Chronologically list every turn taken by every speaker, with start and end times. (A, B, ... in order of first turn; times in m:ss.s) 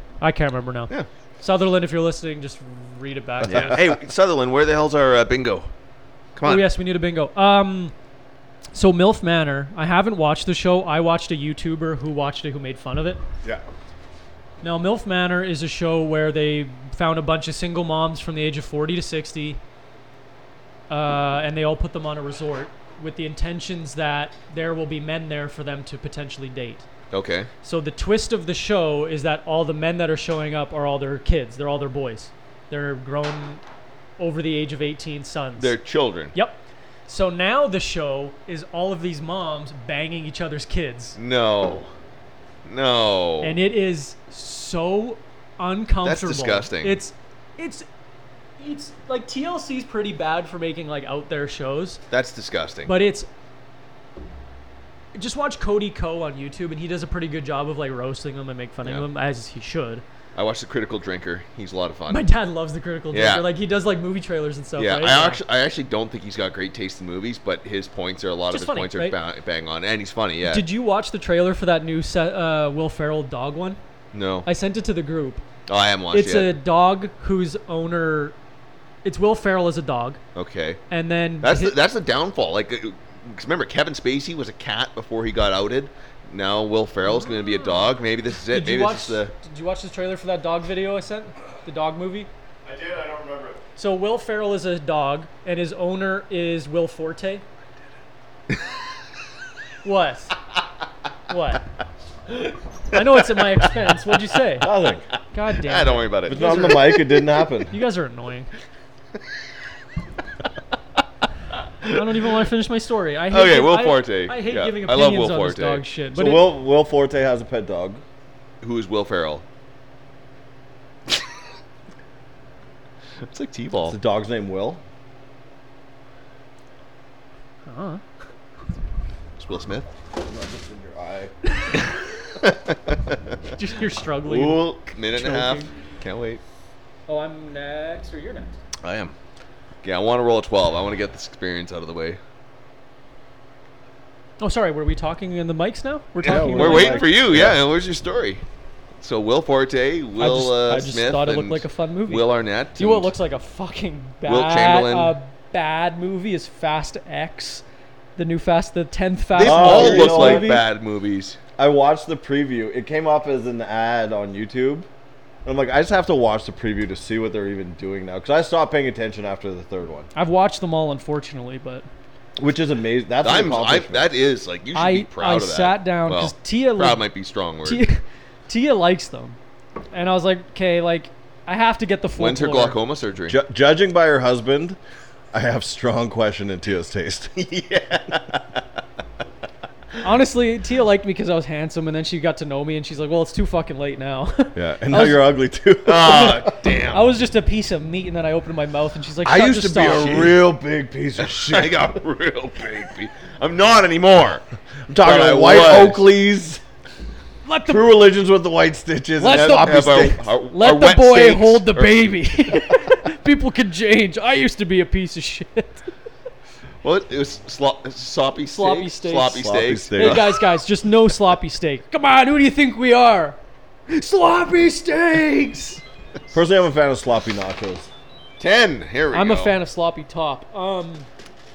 0:00.2-0:03.8 A
0:03.4-0:05.7 B
0:06.4-0:06.7 B
0:06.4-0:07.9 A
0:08.7-0:13.2 A
0:14.6-0:19.6 A
0:20.9-0:26.9 A
0:27.1-0:27.5 B
0:27.6-0:33.6 A
0:34.2-0:35.8 A
0:35.6-0:36.3 B
0:36.3-0:41.2 A
0:41.2-0:41.9 B
0:42.6-0:43.6 B
0:43.4-0:47.9 A
0:46.0-0:47.0 B
0:48.6-0:52.0 A
0:52.1-0:52.9 B
0:52.9-0:53.3 A
0:55.1-1:00.0 A
1:00.3-1:02.2 B
1:02.1-1:05.4 A
1:03.1-1:03.5 B
1:04.8-1:10.6 B
1:08.5-1:09.2 A
1:10.4-1:13.8 A
1:14.1-1:14.5 B
1:14.4-1:15.4 A
1:15.7-1:16.6 B
1:16.1-1:18.4 A
1:19.0-1:20.2 A
1:20.3-1:20.8 B
1:20.9-1:21.8 A
1:21.4-1:29.3 B
1:27.2-1:27.8 A
1:28.5-1:32.3 A
1:32.7-1:33.6 B
1:33.8-1:37.4 A
1:39.8-1:40.4 A
1:41.3-1:41.6 A
1:42.9-1:44.7 A
1:44.6-1:45.0 C
1:45.3-1:47.0 A
1:45.6-1:47.2 B
1:46.3-1:47.8 C
1:47.7-1:48.5 A
1:51.8-1:56.4 A
1:53.3-1:55.8 B
1:56.1-1:58.0 C
1:58.6-1:59.4 B
2:03.2-2:04.0 B
2:03.8-2:04.8 C
2:07.6-2:08.0 A
2:09.4-2:09.9 B
2:10.2-2:11.3 C
2:11.5-2:11.8 A
2:12.4-2:13.2 B
2:13.5-2:15.7 A
2:14.2-2:16.4 B
2:17.1-2:18.6 A
2:18.8-2:19.1 B
2:19.8-2:22.2 B
2:24.4-2:27.2 A
2:26.2-2:28.4 B
2:26.2-2:27.6 C
2:29.0-2:33.1 B
2:30.2-2:37.6 A
2:34.3-2:35.1 B
2:38.2-2:40.6 A
2:39.4-2:41.4 B
2:39.4-2:40.6 C
2:41.6-2:44.9 C
2:45.4-2:50.1 C
2:50.1-2:51.9 A
2:52.4-2:54.1 C
2:53.2-2:57.9 B
2:54.7-2:57.1 A
2:57.6-2:59.4 A
2:59.9-3:02.8 A
3:02.2-3:03.4 B
3:03.3-3:04.8 C
3:05.3-3:07.3 C
3:07.4-3:08.6 B
3:10.0-3:15.3 A
3:14.6-3:16.5 C
3:15.8-3:17.1 B
3:16.0-3:20.3 A
3:19.3-3:22.0 C
3:19.7-3:20.3 B
3:21.2-3:26.0 B
3:24.9-3:26.6 C
3:27.4-3:27.9 A
3:27.7-3:30.2 C
3:29.2-3:35.9 A
3:29.3-3:32.1 B
3:36.8-3:40.4 B
3:38.5-3:43.4 A
3:39.3-3:40.3 C
3:43.9-3:45.8 A
3:46.3-3:47.9 C
3:48.4-3:49.6 B
3:49.1-3:51.1 A